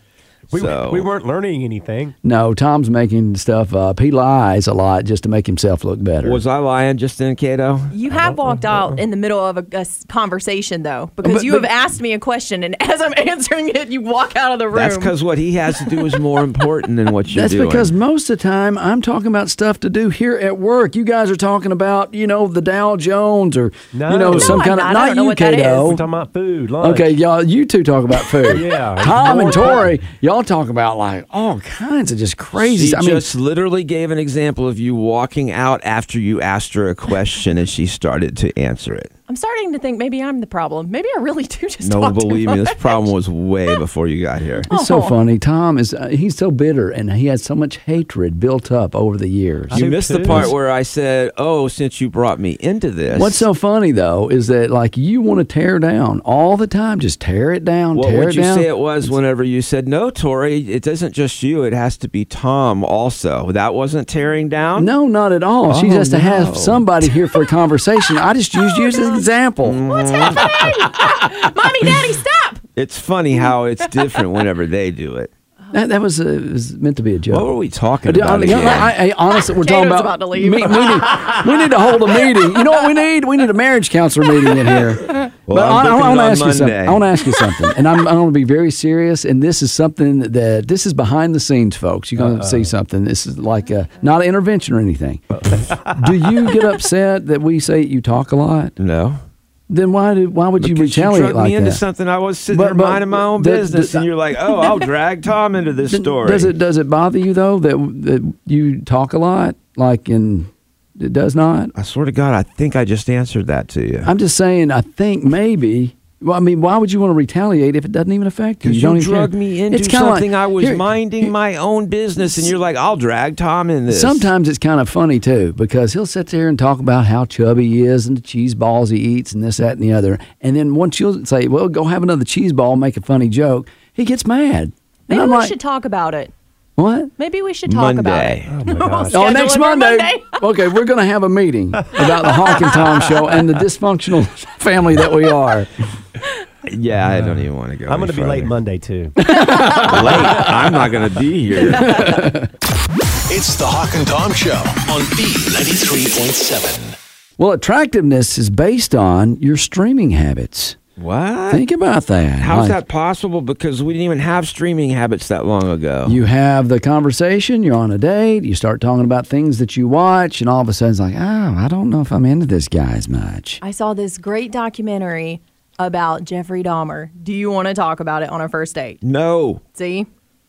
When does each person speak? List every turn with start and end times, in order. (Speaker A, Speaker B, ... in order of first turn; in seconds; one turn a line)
Speaker A: 0.5-1.1
Speaker B: 0.5-2.1
Speaker C: 2.2-6.4
Speaker A: 6.2-7.9
Speaker D: 7.9-15.1
Speaker B: 8.2-9.0
Speaker C: 11.2-11.7
Speaker A: 14.7-17.9
Speaker D: 15.8-16.1
Speaker C: 17.3-26.0
Speaker B: 23.9-24.6
Speaker D: 24.3-26.0
Speaker B: 25.8-27.1
Speaker C: 26.8-33.3
Speaker B: 28.5-29.9
Speaker A: 32.6-39.1
Speaker D: 39.3-43.1
Speaker A: 41.8-44.7
Speaker C: 44.6-50.5
Speaker D: 44.7-45.1
Speaker A: 49.7-53.5
Speaker B: 49.7-50.5
Speaker C: 53.1-59.1
Speaker A: 57.9-64.9
Speaker C: 64.8-69.8
Speaker A: 65.7-66.8
Speaker D: 68.7-69.1
Speaker A: 69.7-70.5
Speaker D: 69.9-72.6
Speaker A: 72.8-75.3
Speaker C: 75.7-77.5
Speaker A: 77.3-79.0
Speaker C: 78.0-98.8
Speaker D: 79.3-81.3
Speaker A: 85.5-87.1
Speaker B: 92.2-92.7
Speaker B: 95.5-96.3
Speaker A: 98.8-99.2
Speaker C: 99.7-101.8
Speaker A: 100.6-106.5
Speaker C: 102.5-104.1
Speaker C: 105.9-111.7
Speaker A: 111.8-114.1
Speaker C: 114.0-121.3
Speaker A: 118.6-124.3
Speaker C: 123.9-135.6
Speaker D: 135.1-136.3
Speaker C: 136.8-137.1
Speaker D: 137.2-140.4
Speaker A: 137.7-138.6
Speaker B: 138.5-139.2
Speaker C: 139.1-145.7
Speaker D: 142.5-142.8
Speaker A: 146.7-148.6
Speaker B: 147.1-149.2
Speaker C: 149.2-150.4
Speaker A: 149.7-152.1
Speaker C: 151.8-152.5
Speaker E: 153.3-157.0
Speaker C: 157.4-160.8
Speaker A: 161.0-161.6
Speaker C: 161.5-162.8
Speaker A: 162.4-166.2
Speaker C: 166.1-173.6
Speaker D: 173.6-179.0
Speaker A: 179.0-179.6
Speaker D: 179.8-180.1